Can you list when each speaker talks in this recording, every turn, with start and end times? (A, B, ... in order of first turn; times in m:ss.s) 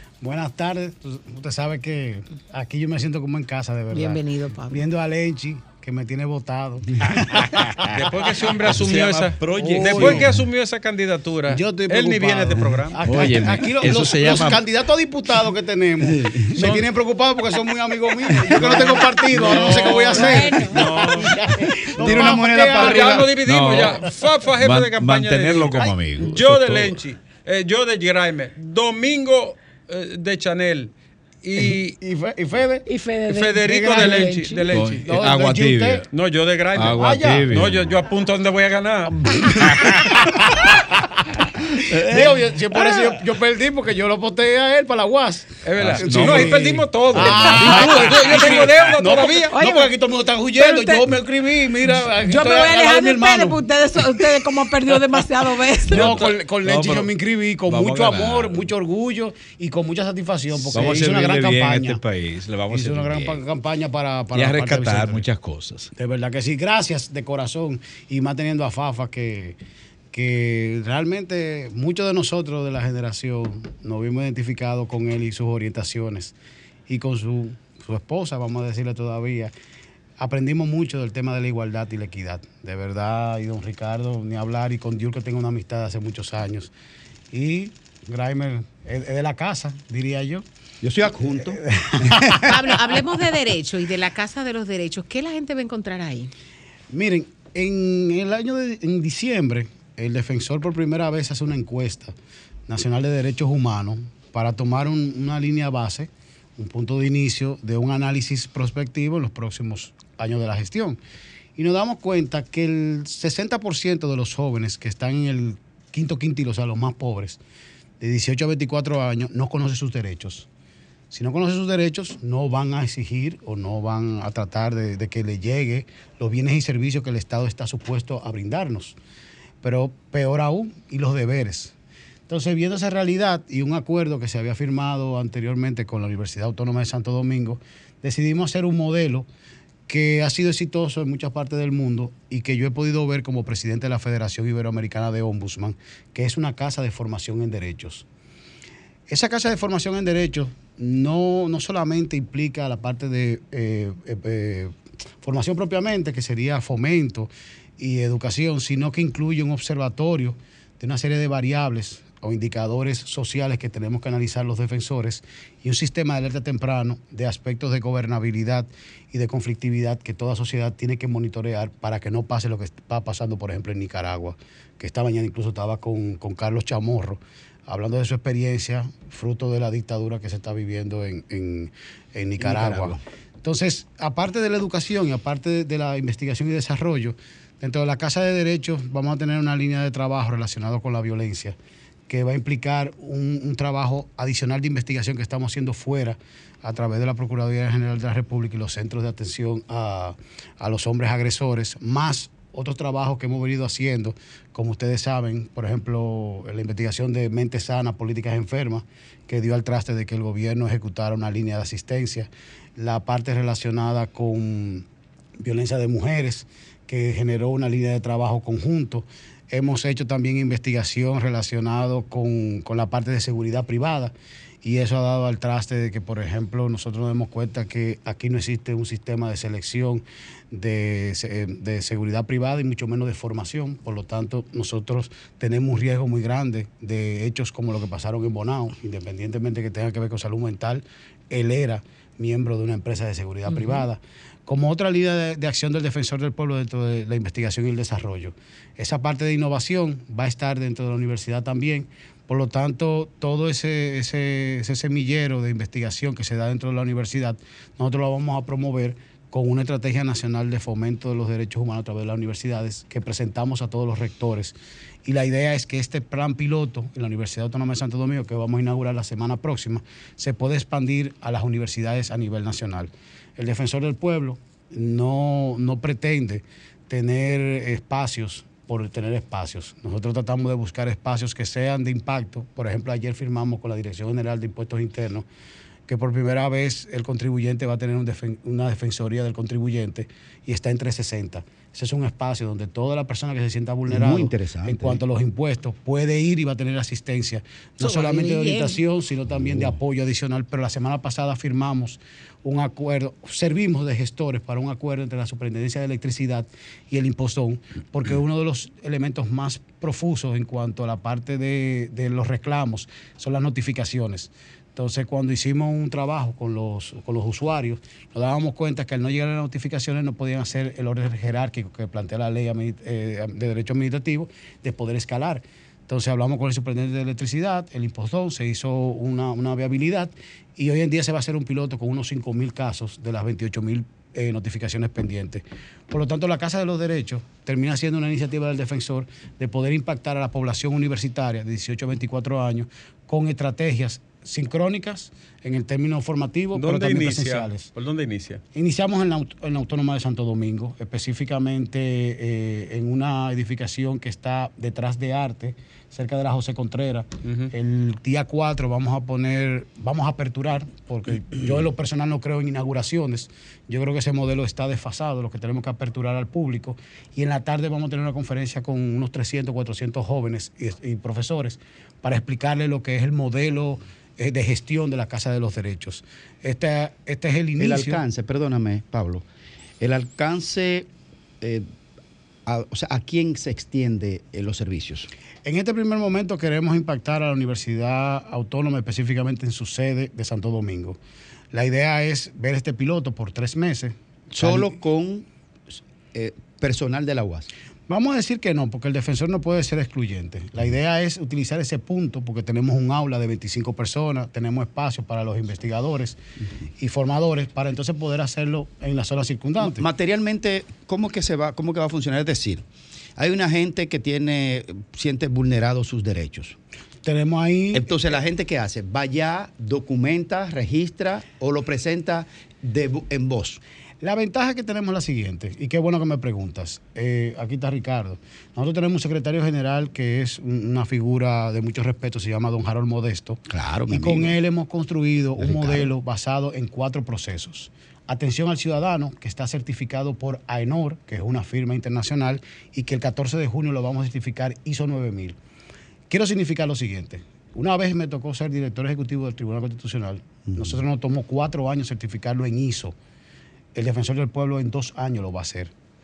0:00.2-0:07.9 A
0:03.9-0:04.8 B
0:07.9-0:13.0 C
0:08.6-0:10.3 D
0:09.5-0:10.3 A
0:11.5-0:23.3 A
0:13.0-0:14.7 D
0:18.5-0:19.6 D
0:18.6-0:21.4 C
0:19.5-0:21.4 B
0:22.0-0:23.3 E
0:22.0-0:30.9 C
0:23.4-0:24.1 D
0:24.6-0:27.0 D
0:31.4-0:32.0 C
0:32.0-0:32.8 A
0:32.9-0:34.7 B
0:33.3-0:35.1 C
0:33.7-0:36.0 A
0:34.7-0:36.1 D
0:36.1-0:40.0 C
0:36.8-0:37.9 D
0:37.0-0:37.5 A
0:39.7-0:40.0 D
0:41.9-0:43.2 D
0:42.1-0:54.2 A
0:45.6-0:49.6 C
0:45.8-0:47.8 D
0:47.4-0:48.6 B
0:49.5-0:49.9 B
0:50.6-0:52.0 C
0:52.2-0:56.2 B
0:55.9-1:02.0 A
0:55.9-0:57.1 D
0:57.7-0:58.7 D
1:00.7-1:03.4 D
1:02.7-1:05.2 A
1:04.3-1:05.9 D
1:06.0-1:09.6 A
1:10.1-1:16.4 A
1:16.9-1:19.5 A
1:20.2-1:26.7 A
1:27.3-1:30.4 A
1:30.8-1:32.2 E
1:31.5-1:32.4 A
1:32.4-1:36.3 B
1:36.9-1:42.1 A
1:42.7-1:51.0 A
1:51.6-1:57.4 A
1:58.0-2:00.5 A
2:01.1-2:09.0 A
2:09.6-2:11.8 A
2:12.3-2:19.3 A
2:19.9-2:28.1 A
2:29.1-3:11.6 A
3:02.4-3:03.0 E
3:12.1-3:34.8 A
3:35.4-4:24.5 A
4:03.5-4:03.8 B
4:25.0-4:45.3 A
4:45.9-5:47.7 A
4:53.9-4:55.0 E
4:57.8-4:58.8 B
4:59.3-4:59.7 E
5:46.6-5:48.4 C
5:48.6-6:18.0 A
5:57.2-5:57.5 C
6:17.6-6:19.2 E
6:19.8-6:20.9 E
6:21.4-6:21.7 E
6:22.5-6:25.1 E
6:25.4-6:31.0 A
6:31.5-6:34.8 A
6:34.3-6:37.5 E
6:37.9-6:46.2 A
6:46.8-6:49.8 A
6:49.6-6:52.6 E
6:53.2-6:56.6 E
6:57.0-6:58.0 A
6:57.7-7:03.6 E
7:04.0-7:25.4 A
7:13.5-7:14.4 E
7:15.4-7:15.9 E
7:26.1-7:33.0 A
7:30.5-7:30.8 E
7:33.8-7:35.7 A